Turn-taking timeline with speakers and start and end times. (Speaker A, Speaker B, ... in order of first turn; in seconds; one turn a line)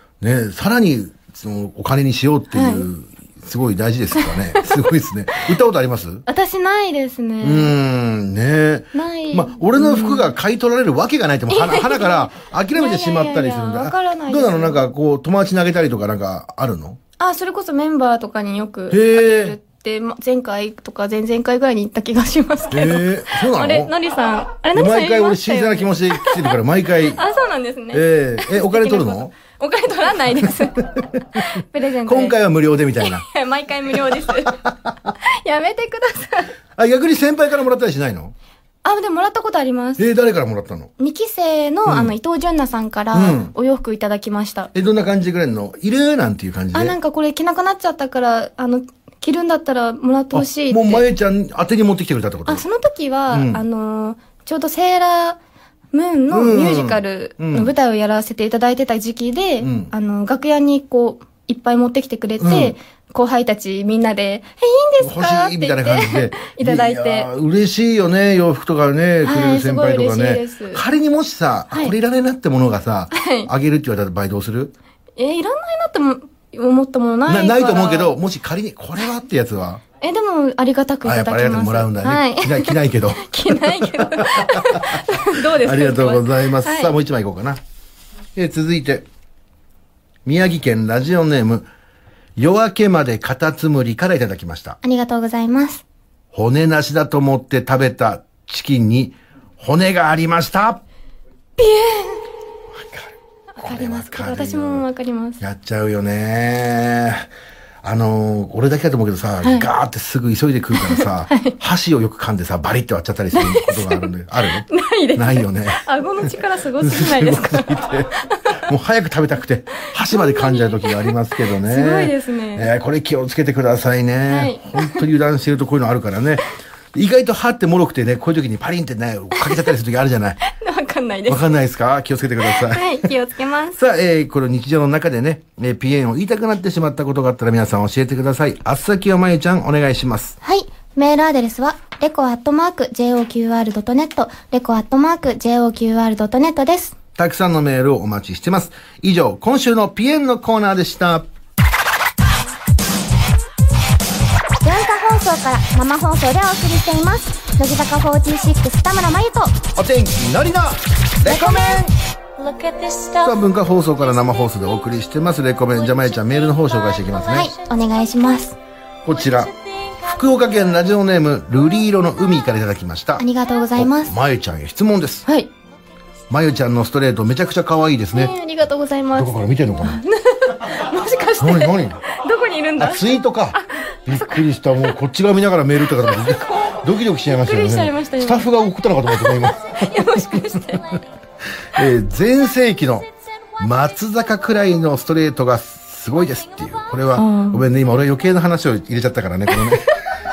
Speaker A: 0.2-6.2
Speaker B: 2.5-2.9
Speaker B: 6.3-7.7
Speaker A: 7.4-17.0
Speaker B: 8.9-10.3
Speaker B: 11.5-14.8
Speaker B: 17.2-26.5
Speaker A: 18.9-19.6
Speaker A: 22.7-23.9
Speaker A: 24.7-27.2
Speaker B: 27.1-32.4
Speaker A: 27.9-29.3
Speaker A: 30.9-31.4
Speaker A: 32.0-33.2
Speaker B: 33.0-34.6
Speaker A: 34.3-35.1
Speaker B: 35.2-36.5
Speaker A: 36.8-38.3
Speaker B: 38.8-40.1
Speaker A: 40.0-40.9
Speaker B: 41.0-44.7
Speaker A: 41.9-42.1
Speaker A: 43.1-43.5
Speaker A: 44.7-47.0
Speaker B: 46.7-51.0
Speaker A: 50.3-52.6
Speaker B: 52.5-55.4
Speaker A: 53.3-53.6
Speaker B: 55.9-67.3
Speaker A: 56.3-57.7
Speaker A: 59.6-59.9
Speaker A: 62.4-62.7
Speaker A: 65.0-74.7
Speaker B: 69.2-70.8
Speaker B: 73.1-73.5
Speaker B: 75.2-78.2
Speaker A: 77.3-79.8
Speaker B: 80.0-86.9
Speaker A: 81.0-87.6
Speaker A: 88.3-89.0
Speaker A: 90.2-91.7
Speaker A: 92.4-94.8
Speaker C: 94.8-95.8
Speaker A: 96.3-100.8
Speaker B: 101.6-102.2
Speaker A: 102.7-104.8
Speaker B: 103.6-105.4
Speaker A: 105.4-107.3
Speaker A: 107.8-118.1
Speaker B: 109.4-109.7
Speaker B: 110.7-111.5
Speaker B: 113.3-114.1
Speaker B: 114.7-117.8
Speaker A: 118.6-130.4
Speaker B: 120.1-121.1
Speaker B: 121.6-122.7
Speaker B: 124.3-125.0
Speaker B: 130.6-131.4
Speaker A: 131.3-133.1
Speaker B: 132.5-133.8
Speaker A: 133.8-140.3
Speaker C: 140.4-146.9
Speaker A: 147.2-151.3
Speaker C: 154.6-159.6
Speaker A: 159.8-161.8
Speaker C: 161.2-163.3
Speaker A: 163.2-167.5
Speaker C: 167.2-168.6
Speaker A: 169.0-175.2
Speaker C: 173.2-174.1
Speaker A: 176.3-178.3
Speaker B: 178.1-184.4
Speaker A: 179.1-180.0
Speaker A: 181.4-182.0
Speaker A: 182.8-190.4
Speaker B: 186.2-186.7
Speaker B: 187.3-188.4
Speaker B: 189.8-191.0
Speaker A: 191.7-193.1
Speaker A: 193.6-199.9
Speaker B: 197.1-197.6